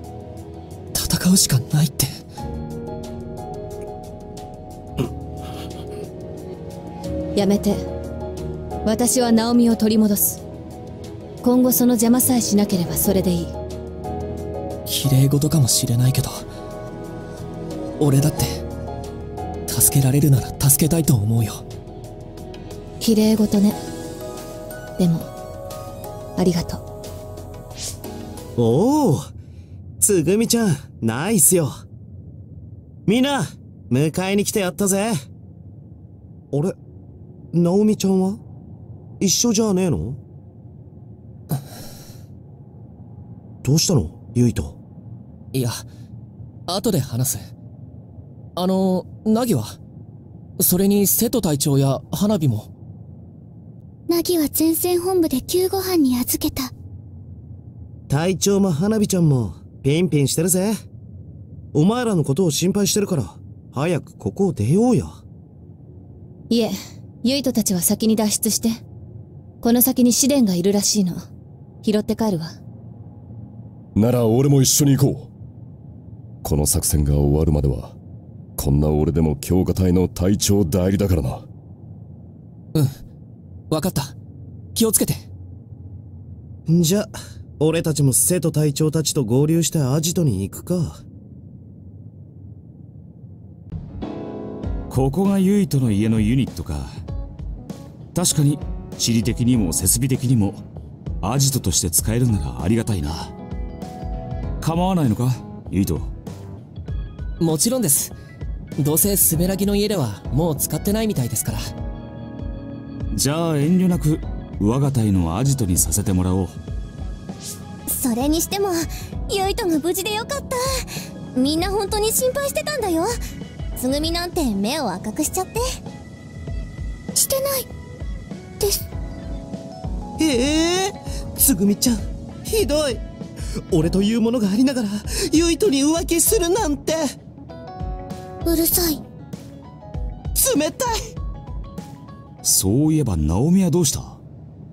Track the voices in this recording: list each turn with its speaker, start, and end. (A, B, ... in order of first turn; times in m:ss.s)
0:00.9-0:02.2 A
0:07.4-0:07.8 B
0:08.8-0:10.4 B
0:11.4-0:13.5 B
0:14.8-0:16.5 A
0:18.0-0:18.6 A
0:19.7-0:21.6 A
0:23.0-0:23.8 B
0:25.0-0:25.3 B
0:26.4-0:26.8 B
0:28.6-0:29.3 C
0:30.0-0:31.8 C
0:33.1-0:35.2 C
0:36.5-0:36.8 C
0:37.5-0:38.4 C
0:39.2-0:40.2 C
0:43.6-0:44.8 C
0:45.5-0:45.8 A
0:46.7-0:47.5 A
0:48.6-0:49.8 A
0:50.6-0:52.7 A
0:54.1-0:56.7 D
0:58.1-1:00.8 C
1:01.7-1:05.2 C
1:06.5-1:08.8 B
1:09.6-1:11.2 B
1:11.8-1:12.6 B
1:14.0-1:15.3 E
1:16.4-1:18.0 E
1:18.6-1:21.5 E
1:23.7-1:24.2 A
1:24.8-1:25.2 A
1:26.7-1:31.0 C
1:34.9-1:36.9 F
1:38.1-1:40.6 F
1:41.2-1:43.3 F
1:44.6-1:46.1 F
1:47.4-1:48.1 A
1:48.8-1:51.6 A
1:53.1-1:56.6 F
1:57.9-2:03.1 D
2:03.8-2:05.6 D
2:07.1-2:07.7 D
2:08.6-2:08.8 D
2:10.2-2:13.0 C
2:13.7-2:17.1 C
2:18.4-2:19.0 D
2:20.4-2:20.9 C
2:22.4-2:24.2 F